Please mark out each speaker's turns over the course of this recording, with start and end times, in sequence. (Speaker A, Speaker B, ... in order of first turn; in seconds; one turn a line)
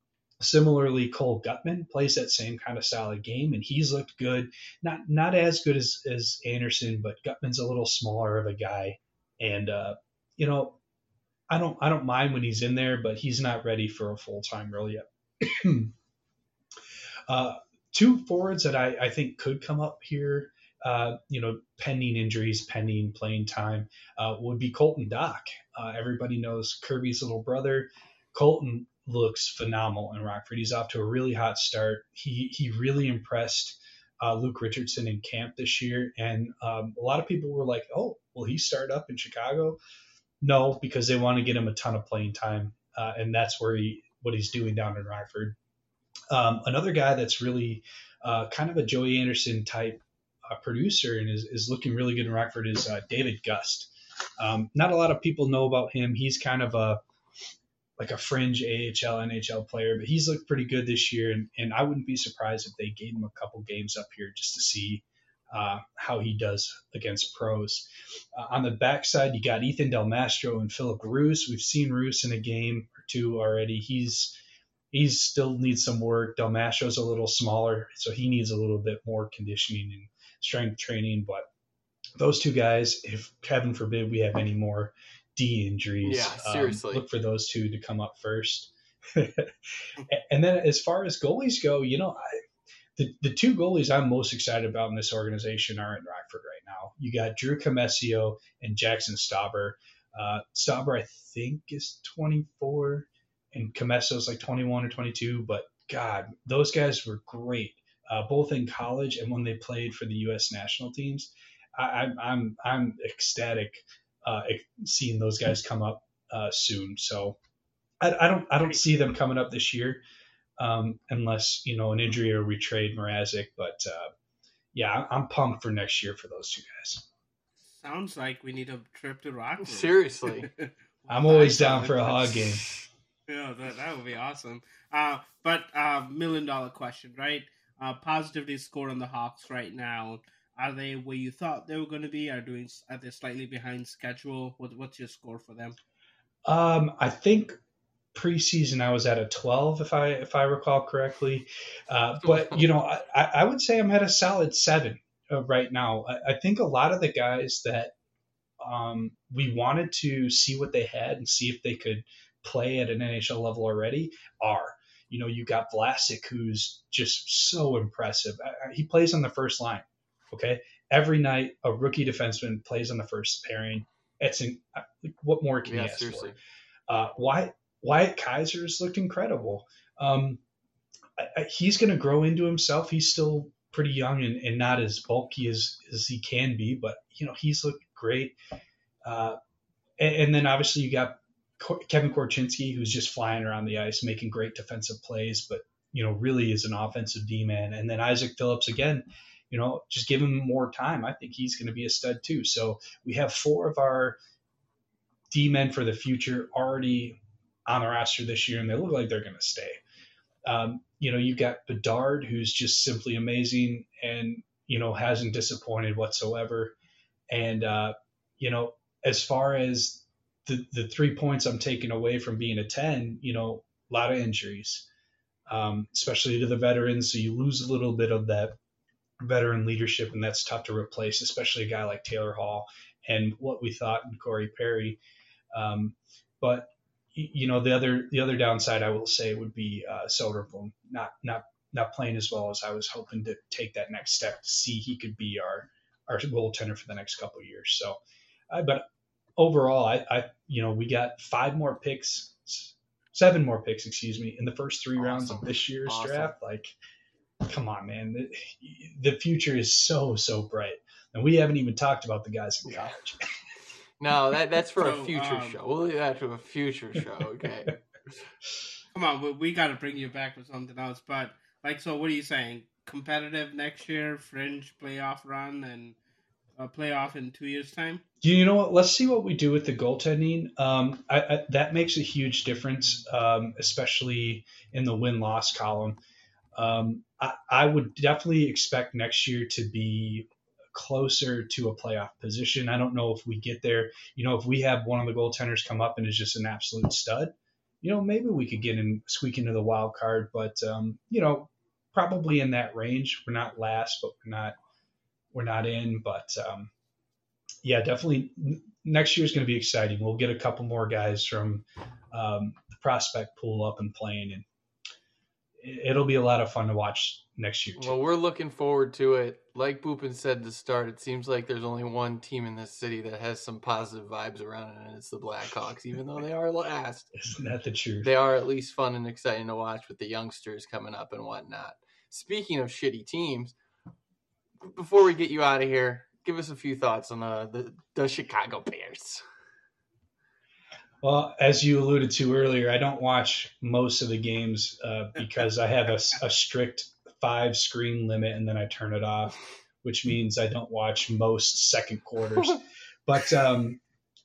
Speaker A: 0.4-10.8
Speaker A: 11.5-15.9
Speaker A: 17.3-39.8
Speaker A: 40.4-45.6
Speaker A: 46.3-57.0
Speaker A: 58.0-74.4
Speaker A: 74.9-81.5
Speaker A: 82.2-92.4
Speaker B: 86.0-87.0
Speaker A: 93.0-117.4
Speaker A: 118.0-120.0
Speaker A: 120.6-124.1
Speaker A: 124.7-127.1
Speaker C: 127.6-132.5
Speaker B: 129.6-130.5
Speaker A: 131.1-132.6
Speaker C: 133.3-145.8
Speaker A: 146.5-147.6
Speaker A: 148.1-157.9
Speaker A: 158.6-176.4
Speaker B: 175.7-176.4
Speaker A: 176.9-180.4
Speaker A: 181.2-188.3
Speaker A: 189.1-189.4
Speaker A: 190.0-204.2
Speaker A: 205.3-209.8
Speaker A: 210.5-216.8
Speaker A: 217.3-224.9
Speaker A: 225.5-228.6
Speaker A: 229.2-235.0
Speaker A: 235.5-248.0
Speaker A: 248.5-248.8
Speaker A: 249.4-256.8
Speaker B: 254.9-256.3
Speaker A: 257.4-263.3
Speaker B: 262.7-263.0
Speaker B: 264.0-267.8
Speaker C: 264.8-265.6
Speaker C: 268.9-276.0
Speaker C: 276.6-278.0
Speaker A: 278.2-286.0
Speaker A: 286.6-304.6
Speaker A: 305.3-306.7
Speaker A: 307.6-314.4
Speaker A: 315.6-318.0
Speaker B: 317.8-327.1
Speaker A: 327.1-328.1
Speaker B: 328.0-333.5
Speaker B: 334.6-339.2
Speaker A: 341.0-353.8